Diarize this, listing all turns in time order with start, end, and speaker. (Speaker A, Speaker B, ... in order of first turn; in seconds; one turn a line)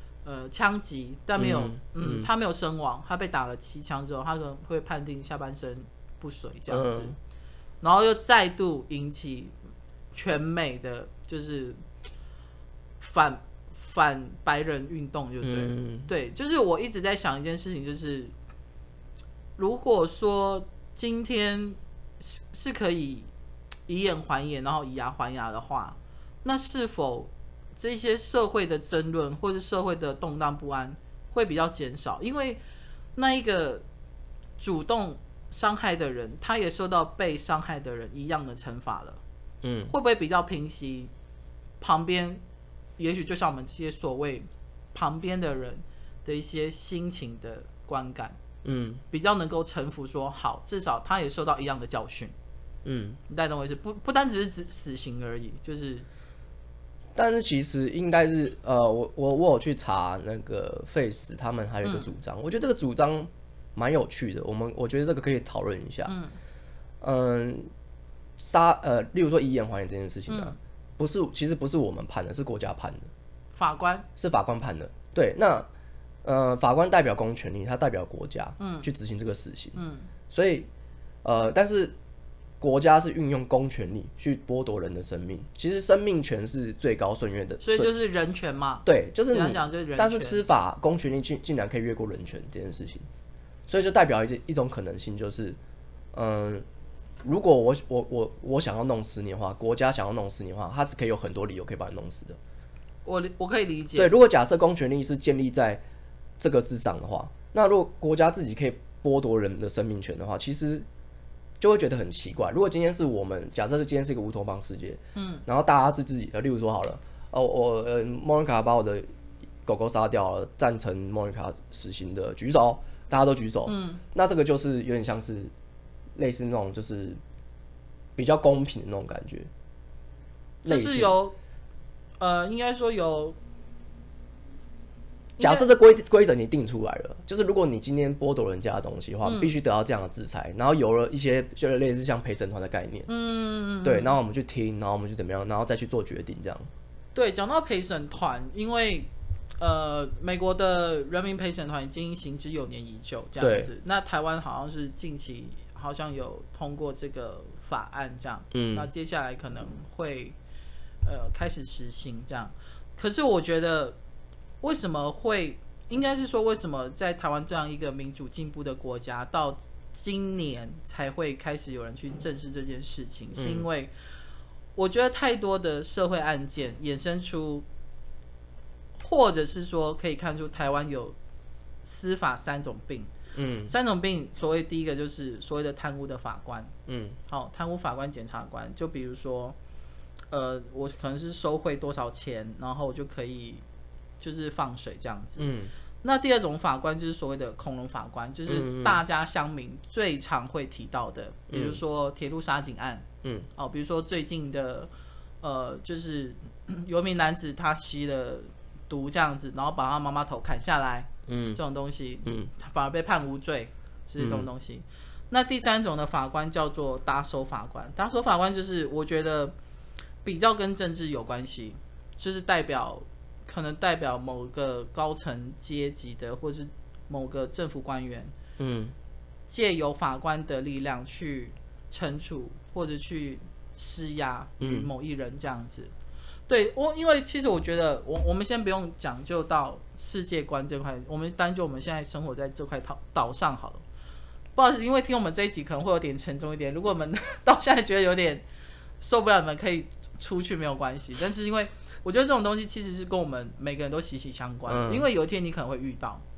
Speaker A: 0.2-7.2
Speaker B: 1.4-2.3
Speaker B: 6.7-7.2
Speaker A: 7.8-9.5
Speaker A: 10.1-11.8
Speaker A: 13.0-18.3
Speaker B: 15.4-16.1
Speaker A: 19.6-23.3
Speaker A: 23.9-32.6
Speaker A: 33.2-33.8
Speaker A: 34.6-39.2
Speaker B: 39.6-40.0
Speaker A: 39.9-41.1
Speaker A: 41.8-42.4
Speaker A: 43.0-48.4
Speaker B: 48.6-49.0
Speaker A: 49.1-52.3
Speaker B: 52.9-53.2
Speaker A: 53.3-56.1
Speaker B: 57.2-66.2
Speaker A: 66.1-66.3
Speaker B: 67.0-67.7
Speaker B: 68.4-73.1
Speaker A: 70.3-70.6
Speaker A: 73.6-74.1
Speaker B: 74.2-75.7
Speaker B: 76.2-79.8
Speaker A: 78.6-78.9
Speaker A: 79.8-80.1
Speaker B: 80.3-80.7
Speaker B: 81.2-82.0
Speaker B: 82.6-87.9
Speaker A: 87.6-90.4
Speaker B: 88.8-93.1
Speaker B: 93.7-95.6
Speaker B: 96.1-96.7
Speaker B: 97.2-102.4
Speaker A: 103.0-104.1
Speaker B: 104.0-105.8
Speaker B: 106.4-110.9
Speaker B: 111.6-119.1
Speaker A: 115.2-115.5
Speaker B: 119.7-125.5
Speaker A: 123.7-124.0
Speaker B: 126.2-127.2
Speaker B: 128.2-129.5
Speaker A: 130.6-131.4
Speaker B: 130.7-131.2
Speaker A: 132.2-133.4
Speaker A: 135.4-135.7
Speaker B: 135.4-143.1
Speaker A: 139.2-139.5
Speaker A: 143.1-144.2
Speaker B: 143.8-146.7
Speaker A: 147.2-160.4
Speaker B: 153.4-153.7
Speaker B: 158.5-158.9
Speaker A: 161.0-164.0
Speaker A: 164.6-173.9
Speaker B: 173.3-173.7
Speaker A: 174.8-177.7
Speaker A: 179.0-181.2
Speaker A: 181.8-183.1
Speaker B: 183.3-183.8
Speaker A: 183.7-186.7
Speaker B: 186.9-187.2
Speaker A: 187.3-189.6
Speaker A: 190.3-193.6
Speaker A: 194.2-204.9
Speaker B: 195.4-195.7
Speaker B: 198.5-199.0
Speaker B: 201.5-201.8
Speaker A: 205.4-219.6
Speaker B: 211.3-211.6
Speaker B: 212.2-212.5
Speaker B: 214.2-214.5
Speaker A: 220.2-228.3
Speaker B: 228.6-228.9
Speaker A: 229.5-235.9
Speaker B: 234.6-234.9
Speaker A: 236.5-243.8
Speaker A: 244.6-248.4
Speaker A: 249.0-256.2
Speaker B: 254.7-255.1